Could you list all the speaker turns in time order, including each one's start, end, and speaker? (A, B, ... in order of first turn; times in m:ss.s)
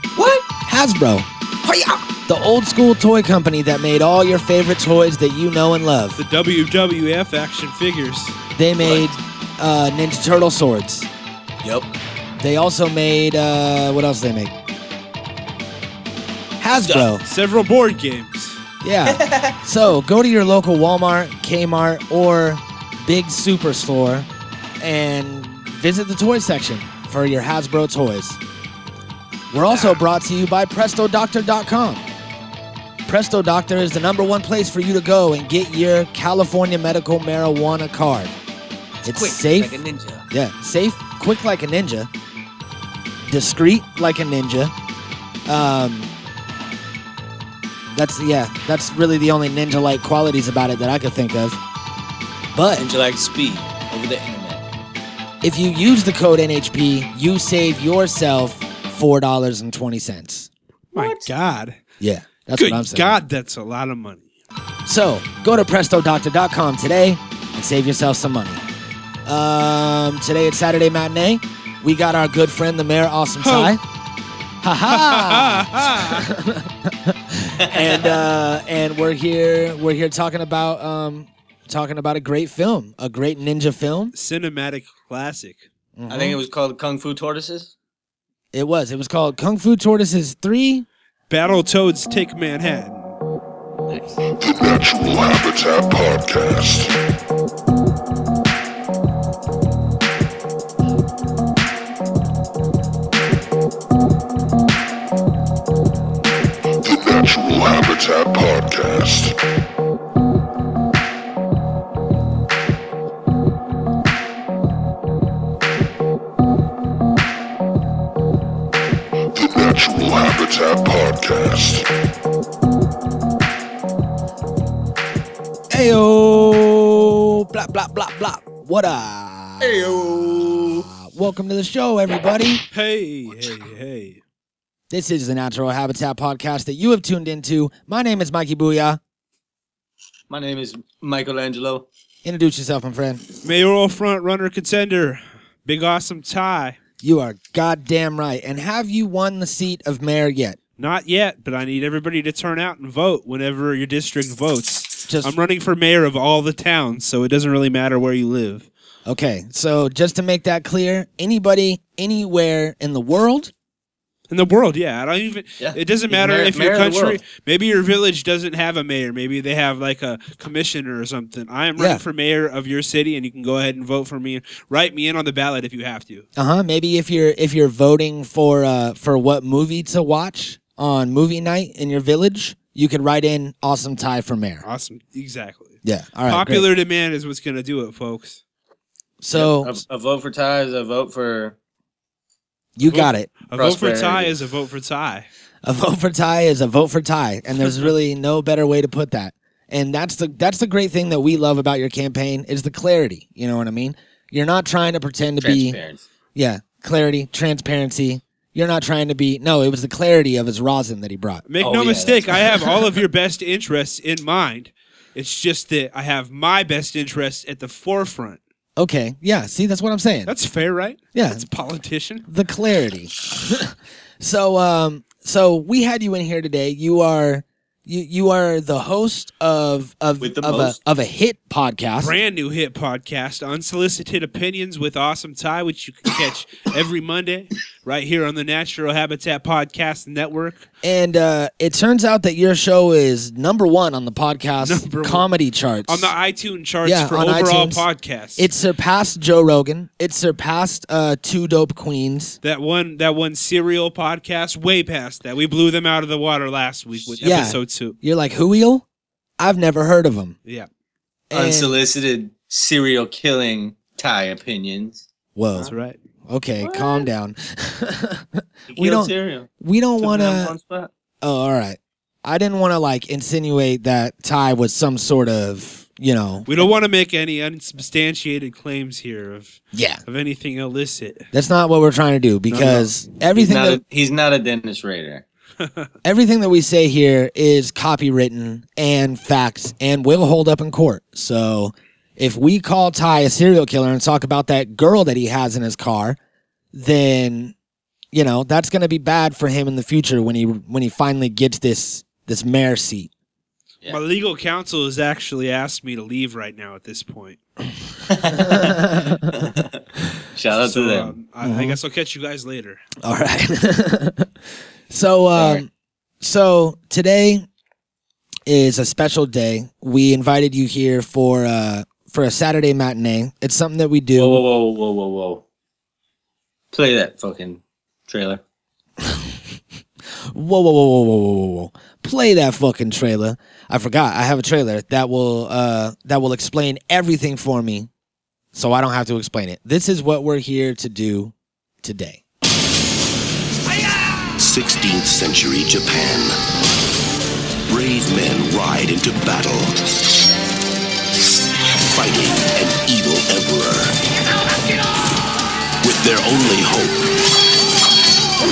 0:00.2-0:00.4 A
0:00.7-0:01.3 B
0:01.6-0:02.0 A
0:02.3-0:06.2 B
0:06.2-0:08.4 C
0:08.6-0:11.1 B
0:08.8-0:09.2 A
0:11.6-0:11.9 A
0:12.4-0:14.5 B
0:16.6-0:17.2 B
0:17.2-0:18.6 C
0:18.8-0:24.3 B
0:19.1-0:19.5 A
0:24.8-0:28.4 B
0:29.5-0:32.0 B
0:29.7-0:30.0 A
0:33.0-0:38.4 B
0:39.0-0:39.8 B
0:39.0-0:40.2 A
0:40.3-0:42.1 B
0:43.3-0:44.7 B
0:45.5-0:46.1 B
0:47.9-0:51.6 B
0:52.5-0:52.8 B
0:52.8-0:54.6 A
0:55.4-1:00.5 B
1:00.9-1:01.3 A
1:00.9-1:01.8 C
1:02.0-1:03.1 B
1:02.5-1:04.3 C
1:04.8-1:08.6 B
1:09.2-1:13.8 B
1:13.4-1:13.8 C
1:14.6-1:24.1 B
1:14.9-1:16.2 C
1:17.6-1:18.2 A
1:24.1-1:25.7 C
1:26.0-1:26.4 B
1:26.1-1:27.7 A
1:28.5-1:30.8 B
1:31.3-1:33.2 C
1:33.9-1:34.2 A
1:34.3-1:37.0 D
1:46.8-1:49.4 D
1:59.3-2:01.9 D
2:05.7-2:12.6 B
2:09.6-2:10.8 A
2:12.7-2:14.2 C
2:14.9-2:19.0 B
2:20.3-2:21.8 A
2:22.2-2:23.2 B
2:23.4-2:26.8 C
2:27.0-2:30.6 B
2:30.8-2:38.7 C
2:35.1-2:35.3 B
2:39.0-2:43.5 B
2:44.3-2:56.2 C
2:45.6-2:47.2 A
2:51.8-2:52.0 B
2:56.4-3:04.6 B
3:04.6-3:08.4 C
3:05.8-3:06.7 B
3:09.2-3:09.8 B
3:09.3-3:11.6 A
3:12.8-3:13.3 B
3:12.8-3:15.3 C
3:13.6-3:14.4 A
3:15.6-3:25.8 B
3:25.4-3:26.0 A
3:26.3-3:31.4 B
3:31.5-3:38.4 C
3:31.6-3:32.7 A
3:38.8-3:40.3 B
3:40.3-3:42.2 C
3:41.1-3:41.4 B
3:42.3-3:52.2 B
3:50.2-3:50.8 A
3:52.0-4:00.6 C
4:00.8-4:06.1 B
4:04.6-4:05.3 C
4:05.9-4:08.5 C
4:06.8-4:12.4 B
4:12.4-4:18.0 C
4:17.2-4:18.8 B
4:19.4-4:20.4 B
4:21.3-4:21.7 B
4:21.3-4:25.7 A
4:25.4-4:25.7 B
4:25.6-4:26.0 C
4:26.3-4:30.5 B
4:26.6-4:27.1 A
4:28.7-4:29.5 A
4:30.0-4:30.9 A
4:31.2-4:36.5 B
4:36.5-4:41.2 C
4:39.7-4:40.0 B
4:41.3-4:43.8 B
4:42.5-4:42.9 C
4:43.3-4:45.2 A
4:45.6-4:45.9 C
4:46.0-4:56.2 B
4:56.7-4:57.5 B
4:58.1-5:03.1 B
5:03.9-5:07.4 C
5:08.1-5:09.8 A
5:08.3-5:09.3 B
5:10.3-5:11.1 A
5:10.5-5:12.8 C
5:11.4-5:11.8 B
5:13.0-5:14.3 B
5:14.9-5:15.7 B
5:15.3-5:15.6 A
5:16.2-5:17.4 B
5:18.4-5:24.4 B
5:24.1-5:25.4 A
5:26.7-5:28.4 A
5:29.0-5:29.4 B
5:30.3-5:37.9 B
5:38.5-5:42.2 B
5:44.4-5:46.4 E
5:47.7-5:49.7 E
5:51.8-5:53.9 E
5:55.8-5:57.0 E